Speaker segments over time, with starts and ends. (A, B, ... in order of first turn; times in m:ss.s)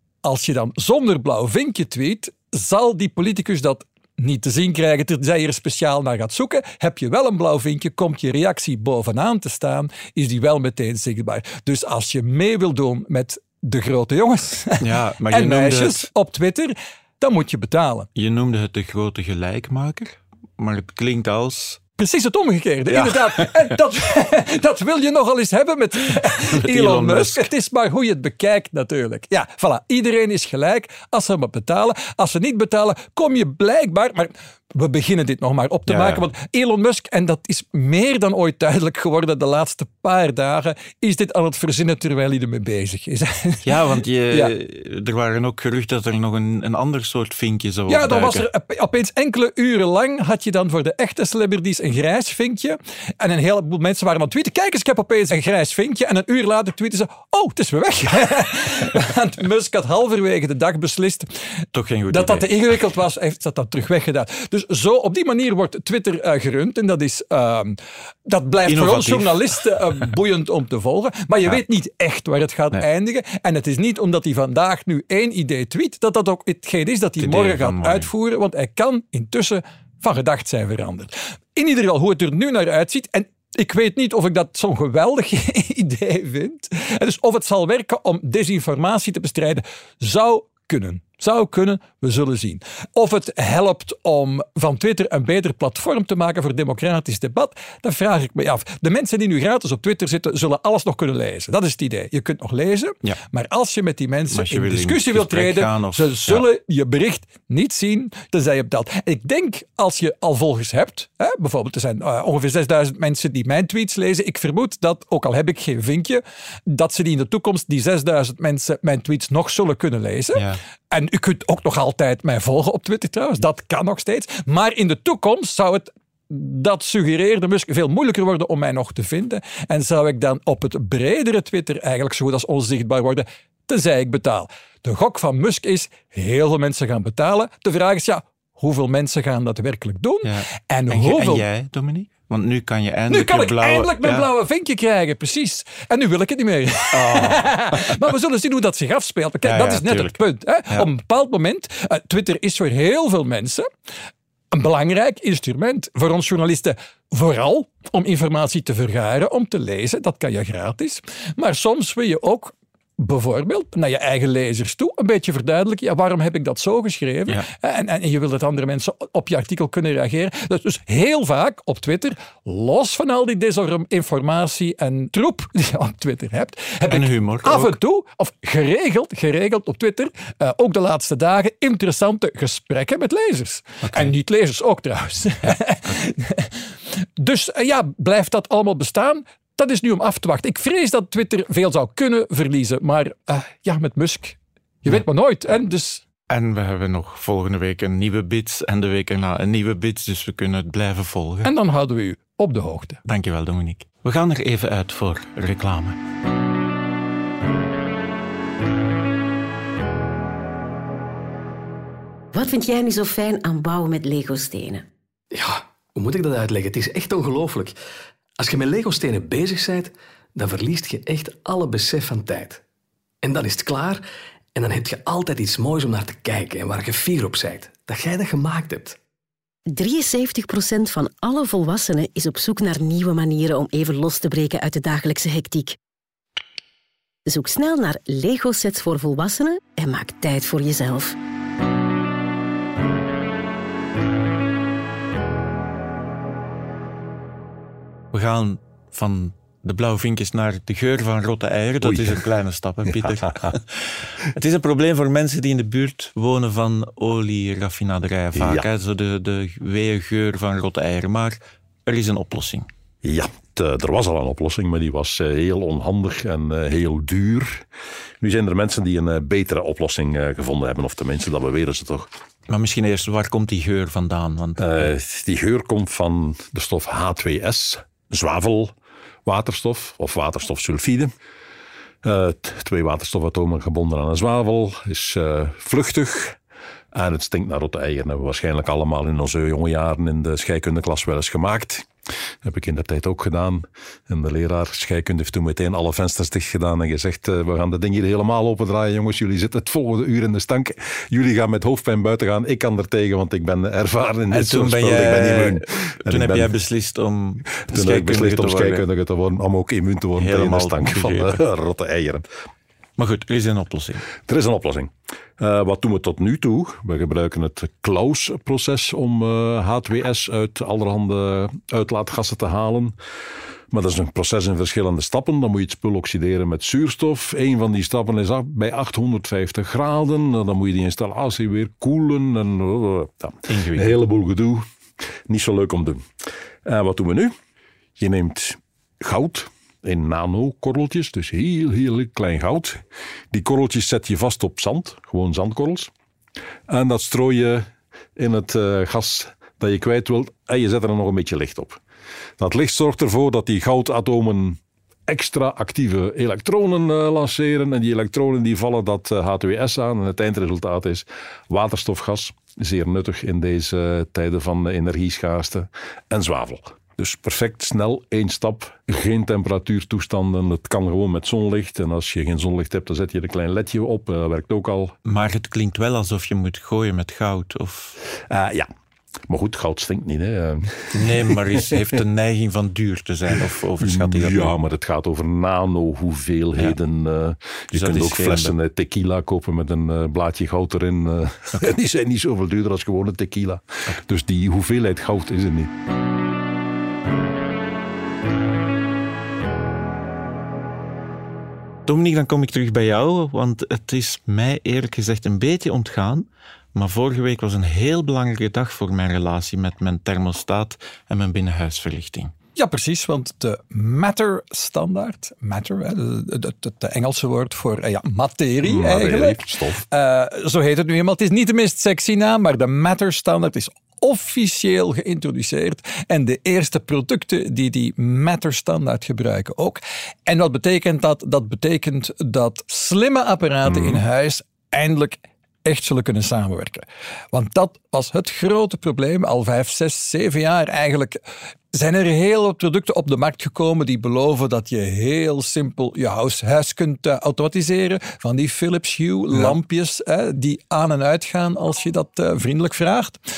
0:00.2-0:18.1 A
0:14.8-0:16.0 B
0:18.1-0:21.8 B
0:22.0-0:44.5 A
0:22.9-0:23.7 B
0:26.1-0:27.4 B
0:35.9-0:36.2 B
0:43.6-0:48.5 B
0:47.9-1:01.3 A
1:01.7-1:02.5 B
1:02.1-2:21.4 A
1:08.6-1:09.5 B
1:17.2-1:18.1 B
1:44.3-1:46.4 B
2:20.2-2:24.3 B
2:23.1-2:33.7 A
2:26.9-2:28.0 B
2:29.4-2:30.9 B
2:34.5-3:06.5 A
2:56.9-2:57.8 B
3:03.8-3:04.1 B
3:07.2-3:16.0 A
3:16.3-3:21.5 B
3:21.4-3:23.0 A
3:23.0-3:26.0 B
3:32.3-3:34.8 C
3:35.3-3:37.7 D
3:38.4-3:42.6 D
3:43.2-3:44.0 D
3:44.5-3:49.0 D
3:49.7-3:55.8 C
3:57.2-4:01.2 C
4:08.1-4:22.7 B
4:11.8-4:12.2 E
4:12.8-4:13.5 E
4:18.3-4:18.7 E
4:23.0-4:27.6 E
4:28.2-4:32.1 E
4:32.5-4:34.9 B
4:34.6-4:41.1 E
4:42.0-4:46.4 E
4:46.9-4:51.9 E
4:52.4-5:06.5 E
5:04.3-5:08.8 B
5:07.7-5:12.2 E
5:10.2-5:11.4 B
5:13.0-5:14.1 B
5:14.2-5:22.9 E
5:23.7-5:34.6 E
5:33.5-5:34.0 B
5:35.3-5:36.0 E
5:36.6-5:37.3 E
5:38.0-5:45.9 E
5:46.7-5:51.8 E
5:52.4-6:14.9 E
6:15.0-6:18.0 B
6:18.2-6:18.7 E
6:19.3-6:21.7 E
6:20.9-6:24.5 B
6:23.8-6:35.7 E
6:27.7-6:28.5 B
6:41.9-6:52.3 B
6:52.6-7:21.2 A
6:58.6-6:59.8 E
7:13.6-7:14.0 E
7:21.7-7:33.2 A